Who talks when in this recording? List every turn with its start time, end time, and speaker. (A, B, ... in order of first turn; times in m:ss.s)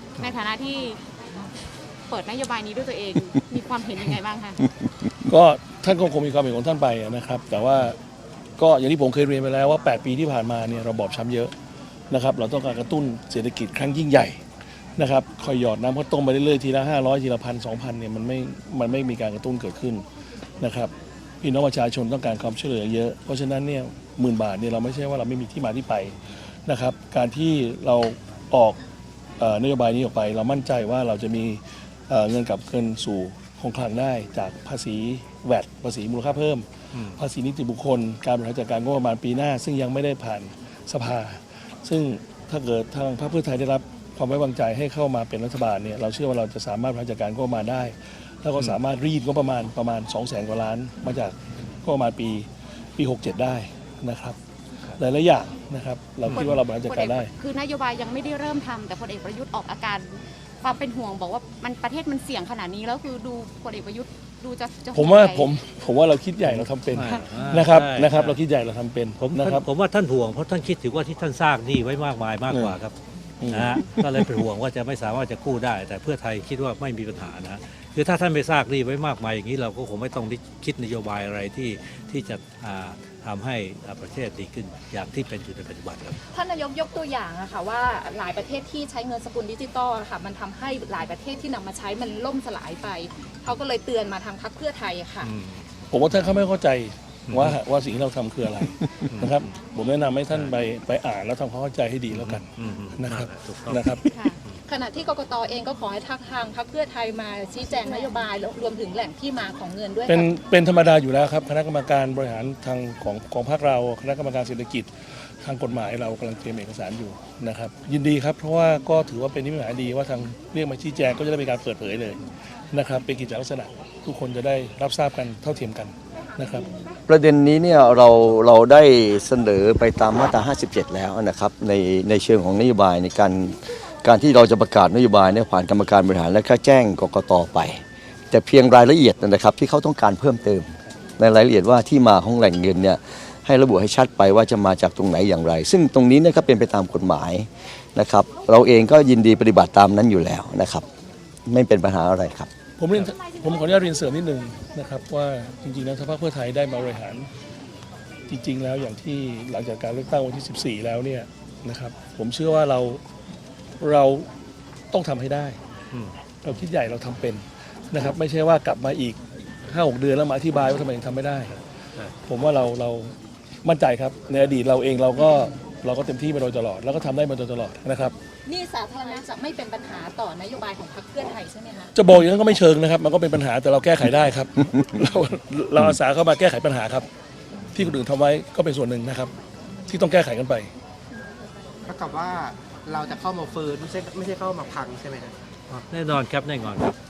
0:00.2-0:01.0 A
0:02.1-0:04.6 A
0:05.2-0:08.0 B
0:08.6-0:11.5 B
0:12.1-0:14.4 B
0:15.0-0:20.0 B
0:20.6-0:28.8 B
0:29.4-0:54.4 B
0:36.9-0:37.2 C
0:55.0-0:57.3 B
0:56.2-0:56.6 C
0:56.3-1:05.5 A
1:04.9-1:09.6 B
1:06.4-1:08.4 C
1:09.2-1:12.9 C
1:12.5-1:12.8 B
1:13.4-1:14.3 B
1:13.5-1:26.2 C
1:26.3-1:35.3 D
1:35.2-1:36.3 C
1:35.9-1:44.1 B
1:37.3-1:37.6 C
1:38.6-1:39.4 C
1:40.3-1:40.6 C
1:42.1-1:44.6 C
1:44.3-1:50.3 D
1:50.1-1:54.9 B
1:55.4-2:02.2 B
2:02.7-2:06.7 B
2:07.1-2:30.8 E
2:31.5-2:32.5 E
2:32.8-2:37.3 B
2:38.3-2:43.0 B
2:43.8-2:44.3 B
2:44.9-2:45.6 B
2:46.4-2:51.6 B
2:52.2-2:58.1 B
2:58.4-3:01.9 D
3:01.9-3:07.1 B
3:07.7-3:09.3 B
3:09.9-3:10.7 B
3:11.8-3:15.3 F
3:15.7-3:16.9 C